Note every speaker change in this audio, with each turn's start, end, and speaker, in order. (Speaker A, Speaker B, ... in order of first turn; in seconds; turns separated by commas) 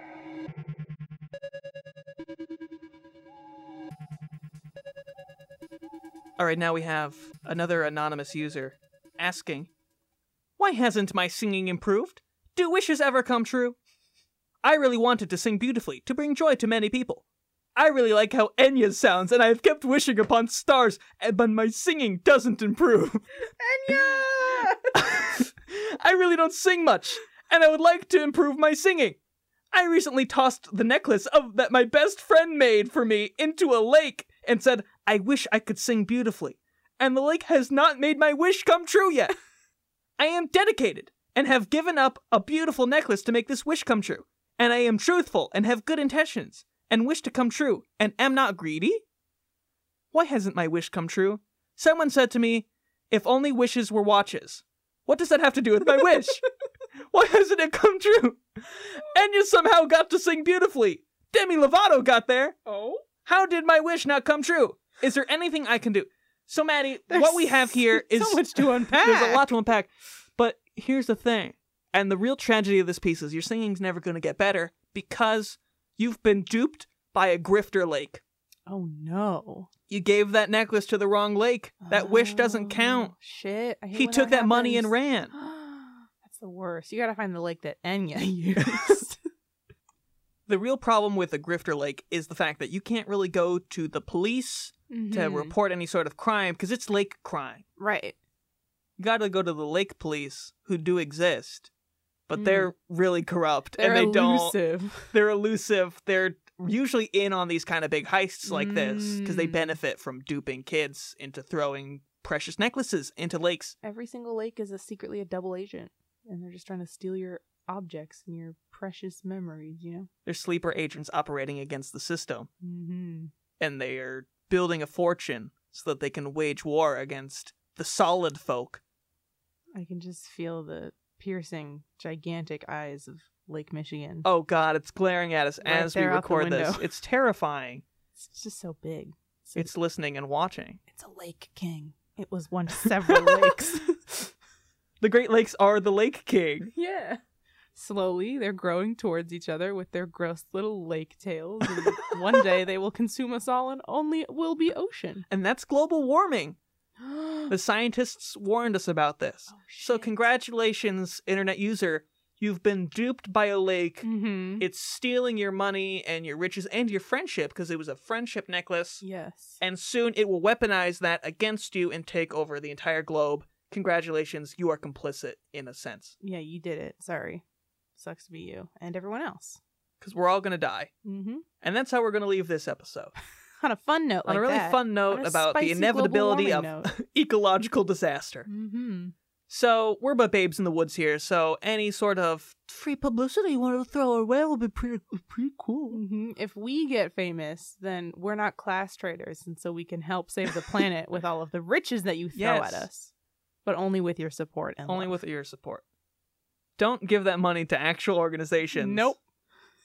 Speaker A: 6.4-9.7, Speaker A: 10.6-13.8, Speaker A: 14.6-17.2, Speaker A: 17.8-23.3, Speaker B: 23.6-25.2, Speaker A: 25.0-29.2, Speaker A: 29.7-39.3, Speaker A: 40.2-49.0, Speaker A: 50.1-56.4, Speaker A: 57.1-62.6, Speaker B: 62.6-63.0, Speaker A: 63.2-78.2, Speaker B: 67.1-69.4, Speaker B: 78.7-79.7, Speaker A: 79.9-83.1, Speaker B: 81.8-89.2, Speaker A: 83.9-85.3, Speaker A: 90.5-97.6, Speaker B: 94.9-95.5, Speaker B: 97.8-98.2, Speaker A: 99.0-101.7, Speaker A: 102.3-104.5, Speaker B: 102.3-102.7, Speaker B: 103.7-105.1, Speaker A: 105.1-113.7, Speaker B: 108.4-109.8, Speaker B: 113.8-120.1, Speaker A: 120.2-122.5, Speaker B: 122.6-123.3, Speaker A: 123.6-128.8, Speaker B: 129.8-134.2, Speaker A: 134.2-137.8, Speaker B: 135.6-136.9, Speaker B: 138.2-139.7, Speaker A: 139.6-140.8, Speaker B: 140.9-144.3, Speaker A: 145.0-146.7, Speaker B: 146.7-147.2, Speaker B: 147.7-155.2, Speaker A: 151.8-152.4, Speaker A: 155.3-156.6, Speaker B: 157.0-157.5, Speaker A: 157.5-164.1, Speaker B: 159.5-160.1, Speaker B: 164.0-164.7, Speaker A: 164.6-169.0, Speaker B: 169.0-169.6, Speaker A: 169.6-176.1, Speaker B: 176.2-177.4, Speaker B: 178.0-179.6, Speaker A: 180.0-180.9, Speaker B: 181.0-181.4, Speaker A: 181.6-183.1, Speaker B: 183.6-186.9, Speaker A: 184.3-188.5, Speaker B: 188.5-189.1, Speaker A: 189.5-196.0, Speaker B: 195.9-203.1, Speaker A: 202.3-202.9, Speaker B: 203.6-205.2, Speaker A: 204.8-205.8, Speaker A: 206.8-209.1, Speaker B: 208.7-209.2